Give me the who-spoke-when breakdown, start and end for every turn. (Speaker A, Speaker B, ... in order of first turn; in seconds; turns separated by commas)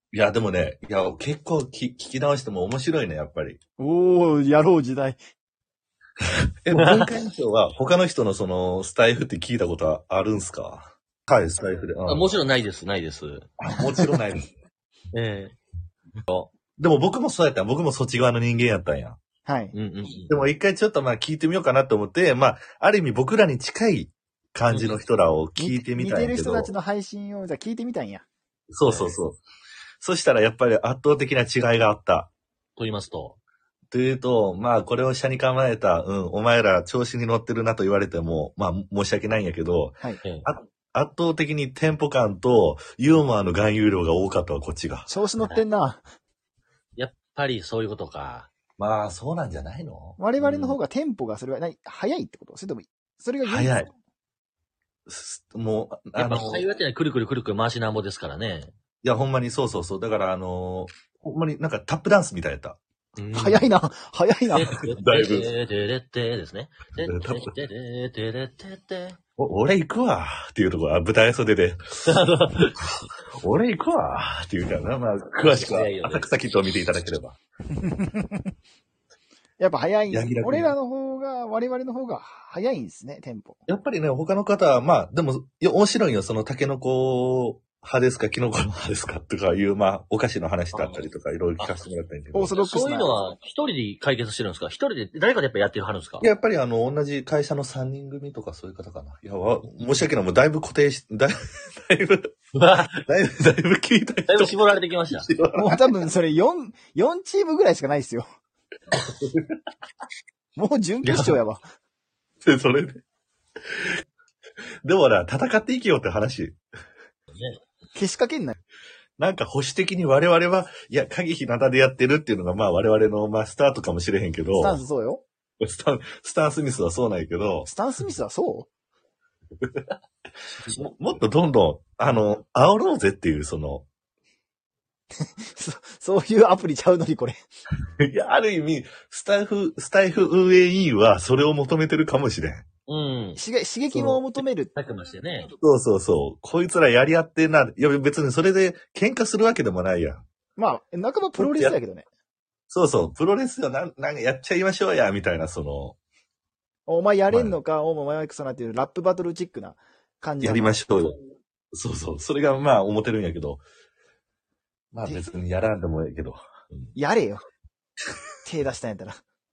Speaker A: 0.1-3.6, Speaker B: 3.8-5.2, Speaker A: 6.7-12.3, Speaker C: 6.7-7.2, Speaker C: 12.1-13.5, Speaker A: 13.6-14.5, Speaker C: 15.1-15.6, Speaker C: 16.2-16.5, Speaker A: 16.8-19.2, Speaker B: 19.5-19.7, Speaker C: 19.7-20.4, Speaker A: 20.3-26.7, Speaker C: 24.7-25.0, Speaker B: 25.6-28.3, Speaker A: 28.7-29.4, Speaker C: 28.8-29.2, Speaker A: 30.0-32.3, Speaker C: 32.8-33.4, Speaker A: 33.9-45.1, Speaker B: 45.1-46.0, Speaker C: 47.0-48.5, Speaker A: 48.8-50.2, Speaker B: 50.2-53.8, Speaker C: 50.4-50.8, Speaker A: 53.4-53.9, Speaker A: 55.1-56.6, Speaker C: 56.2-58.7, Speaker A: 59.0-62.8, Speaker C: 63.2-63.6, Speaker B: 63.3-64.7, Speaker C: 64.5-69.2, Speaker A: 65.0-65.5, Speaker A: 67.1-67.5, Speaker A: 69.4-71.8, Speaker C: 72.0-72.7, Speaker A: 73.4-77.4, Speaker C: 75.4-76.3, Speaker B: 77.8-78.5, Speaker B: 79.6-83.6, Speaker A: 80.1-80.8, Speaker A: 83.7-92.6, Speaker C: 90.7-91.0, Speaker C: 91.6-91.9, Speaker B: 92.3-93.3, Speaker C: 92.5-96.3, Speaker A: 96.2-102.2, Speaker C: 102.5-103.0, Speaker A: 103.0-104.6, Speaker C: 104.3-105.3, Speaker A: 105.1-105.8, Speaker B: 105.6-108.3, Speaker A: 109.1-109.5, Speaker B: 110.6-111.6, Speaker C: 111.0-111.4, Speaker A: 112.5-113.0, Speaker A: 113.7-113.9, Speaker A: 114.8-116.6, Speaker C: 117.3-117.6, Speaker B: 118.0-118.6, Speaker A: 119.2-124.8, Speaker B: 124.5-125.2, Speaker A: 125.6-127.7, Speaker B: 127.7-128.7, Speaker A: 130.8-133.9, Speaker B: 135.2-137.4, Speaker A: 138.0-142.7, Speaker C: 142.9-143.4, Speaker B: 143.4-144.7, Speaker A: 143.9-144.2, Speaker C: 144.4-145.5, Speaker A: 145.5-150.2, Speaker B: 150.6-152.1, Speaker A: 151.4-151.8, Speaker A: 152.7-156.0, Speaker B: 156.9-160.9, Speaker A: 157.3-157.6, Speaker A: 160.4-161.1, Speaker A: 161.7-163.6, Speaker A: 164.9-166.9, Speaker B: 166.9-167.4, Speaker B: 168.4-169.2